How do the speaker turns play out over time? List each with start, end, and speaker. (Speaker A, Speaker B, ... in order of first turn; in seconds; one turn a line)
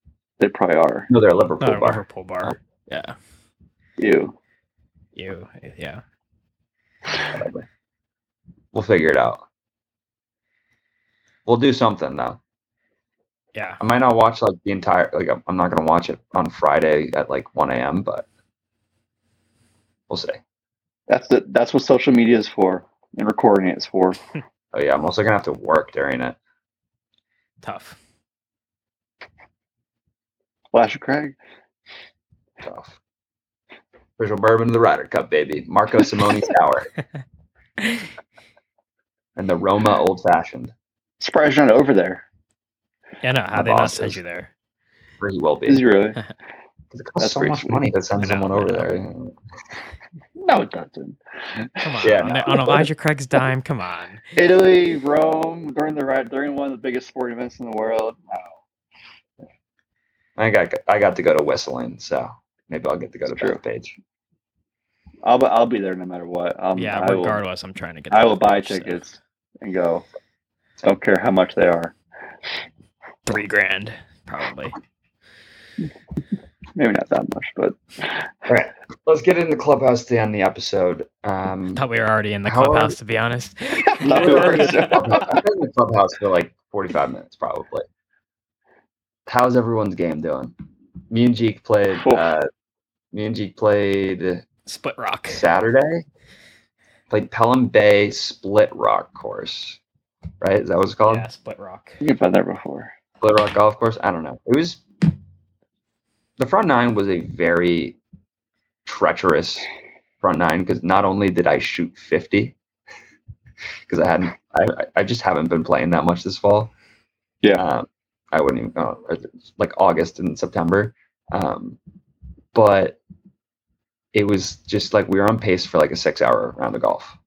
Speaker A: 0.4-1.1
Speaker B: 1.1-2.6
Speaker C: 1.6-3.1
Speaker A: 4.0-4.3
Speaker C: 5.2-6.0
Speaker B: 7.3-7.6
Speaker B: 8.7-9.4
Speaker B: 11.4-12.4
Speaker C: 13.5-13.8
Speaker B: 13.8-18.3
Speaker B: 20.1-20.4
Speaker A: 21.1-24.2
Speaker B: 24.7-26.4
Speaker C: 27.6-28.0
Speaker A: 30.7-31.4
Speaker B: 32.6-33.0
Speaker B: 34.2-36.9
Speaker B: 39.4-40.7
Speaker A: 41.2-42.2
Speaker C: 43.2-44.5
Speaker B: 43.5-44.2
Speaker B: 45.2-45.8
Speaker A: 45.7-46.2
Speaker B: 46.9-49.3
Speaker A: 47.2-47.8
Speaker C: 48.2-48.9
Speaker A: 50.4-51.2
Speaker B: 51.6-52.8
Speaker A: 51.7-52.8
Speaker C: 51.8-54.2
Speaker A: 54.3-58.5
Speaker B: 60.4-64.0
Speaker A: 63.3-63.6
Speaker A: 65.2-67.4
Speaker C: 66.7-69.0
Speaker A: 68.1-70.0
Speaker A: 70.8-71.9
Speaker C: 73.2-74.8
Speaker A: 76.8-78.2
Speaker B: 78.5-81.8
Speaker C: 81.8-85.0
Speaker B: 82.4-83.0
Speaker A: 84.0-85.4
Speaker B: 84.1-87.9
Speaker B: 89.3-90.5
Speaker B: 91.1-92.5
Speaker A: 91.9-92.2
Speaker B: 93.1-94.4
Speaker C: 94.7-95.4
Speaker B: 95.3-96.0
Speaker B: 97.1-99.8
Speaker B: 100.4-101.3
Speaker C: 101.0-102.0
Speaker A: 102.0-102.9
Speaker B: 103.2-104.8
Speaker B: 106.4-108.0
Speaker B: 108.8-109.7
Speaker B: 110.2-112.5
Speaker B: 113.9-116.7
Speaker B: 117.5-121.8
Speaker B: 122.5-123.0
Speaker B: 124.1-127.2